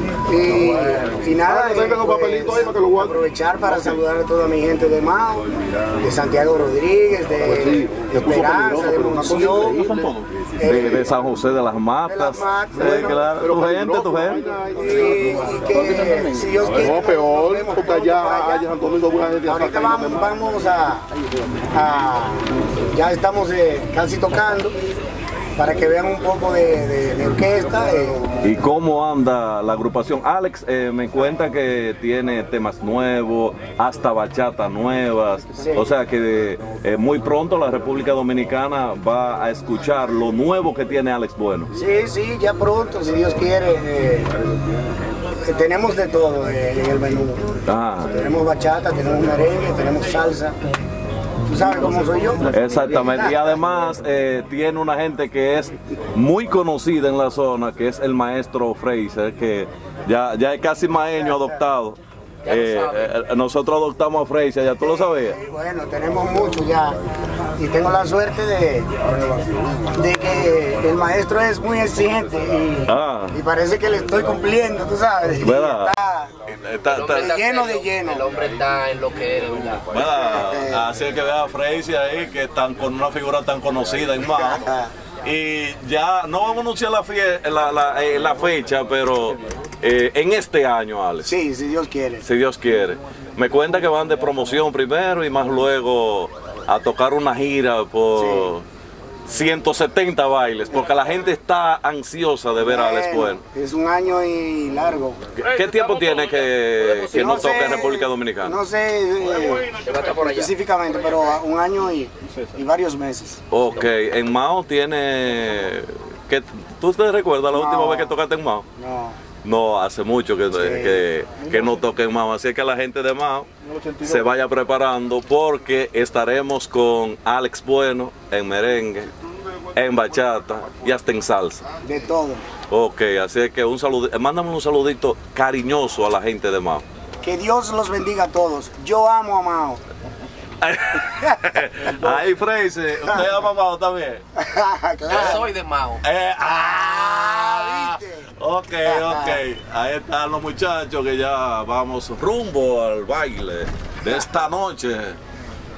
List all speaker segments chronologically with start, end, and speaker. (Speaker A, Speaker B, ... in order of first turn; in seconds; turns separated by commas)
Speaker A: 0.2-5.4, Speaker B: 1.5-3.1, Speaker A: 6.0-9.8, Speaker B: 7.7-10.2, Speaker A: 10.6-11.1, Speaker C: 10.6-14.4, Speaker A: 12.1-13.2, Speaker B: 12.8-20.3, Speaker A: 14.7-18.7, Speaker A: 19.4-21.0, Speaker A: 21.7-24.7, Speaker A: 25.6-28.2, Speaker C: 28.4-41.7, Speaker A: 35.6-35.9, Speaker A: 41.7-44.3, Speaker A: 45.4-50.5, Speaker C: 47.7-48.1, Speaker A: 51.5-53.5, Speaker C: 52.5-65.4, Speaker A: 61.3-61.6, Speaker D: 62.4-63.1, Speaker A: 64.8-67.0, Speaker A: 67.5-69.0, Speaker A: 69.9-76.3, Speaker C: 72.9-73.4, Speaker C: 75.4-75.9, Speaker C: 76.5-77.4, Speaker D: 76.9-79.9, Speaker A: 77.1-78.2, Speaker C: 79.9-84.7, Speaker A: 80.0-80.9, Speaker A: 84.2-84.9, Speaker C: 85.2-91.3, Speaker A: 91.2-92.2, Speaker C: 92.2-98.6, Speaker A: 98.2-98.5, Speaker C: 99.2-103.4, Speaker A: 102.6-105.2, Speaker C: 105.3-108.5, Speaker D: 106.6-107.8, Speaker A: 107.1-113.4, Speaker D: 109.7-110.5, Speaker C: 113.5-118.7, Speaker A: 117.5-118.2, Speaker A: 118.8-119.2, Speaker C: 119.4-123.5, Speaker A: 120.5-121.0, Speaker B: 123.8-124.1, Speaker C: 124.0-129.1, Speaker C: 129.7-131.6, Speaker A: 131.8-132.4, Speaker C: 132.7-136.8, Speaker A: 137.2-139.8, Speaker C: 140.6-144.2, Speaker A: 141.3-142.2, Speaker A: 144.4-145.5, Speaker D: 145.1-146.0, Speaker C: 145.1-145.4, Speaker C: 146.0-155.2, Speaker A: 146.4-148.3, Speaker A: 148.8-149.4